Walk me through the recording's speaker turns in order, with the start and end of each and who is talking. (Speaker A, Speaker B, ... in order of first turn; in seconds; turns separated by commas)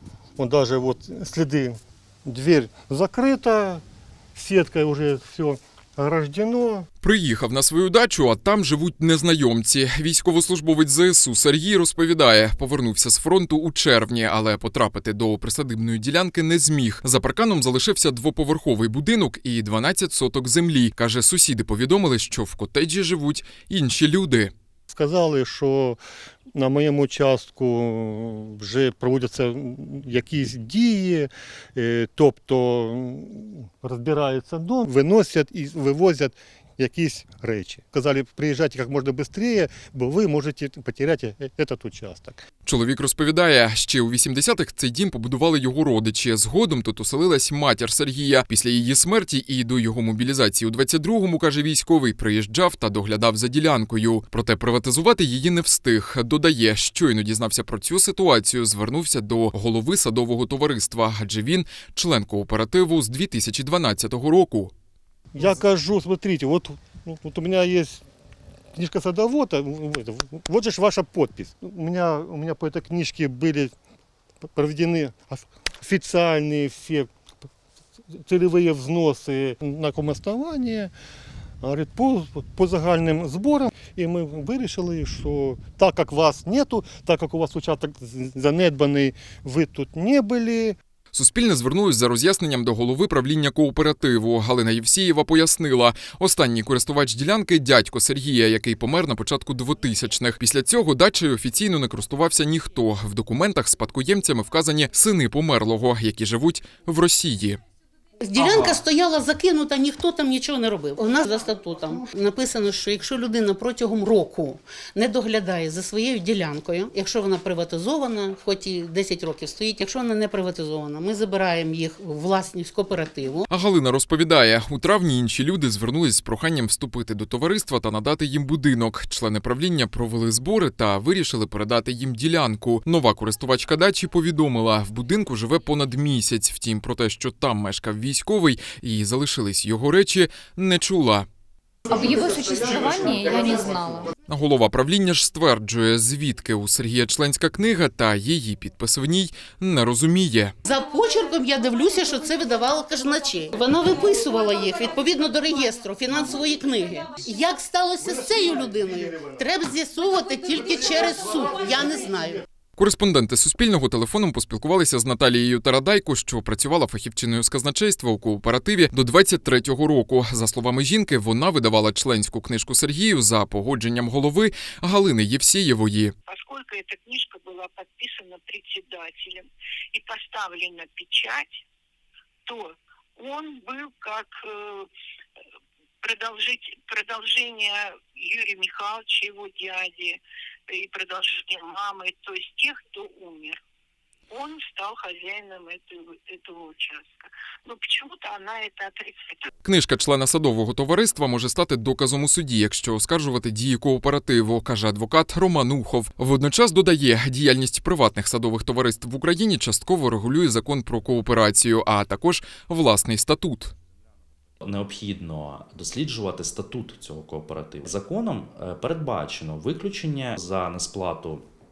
Speaker A: 0.4-3.8, Speaker A: 4.3-6.9, Speaker B: 7.0-24.5, Speaker A: 24.9-26.0, Speaker A: 26.5-42.4, Speaker B: 42.6-64.7, Speaker A: 65.3-68.0, Speaker A: 68.7-73.7, Speaker A: 74.4-77.1, Speaker A: 78.1-80.9, Speaker A: 81.6-90.8, Speaker B: 91.1-107.6, Speaker C: 108.2-123.5, Speaker A: 108.4-108.7, Speaker B: 123.5-141.3, Speaker D: 141.9-144.1, Speaker B: 144.3-150.5, Speaker C: 150.6-162.4, Speaker B: 162.8-176.1, Speaker E: 176.3-181.6, Speaker E: 182.4-184.9, Speaker E: 186.0-190.2, Speaker E: 190.7-193.6, Speaker E: 194.3-199.5, Speaker B: 199.6-213.7, Speaker F: 214.6-221.4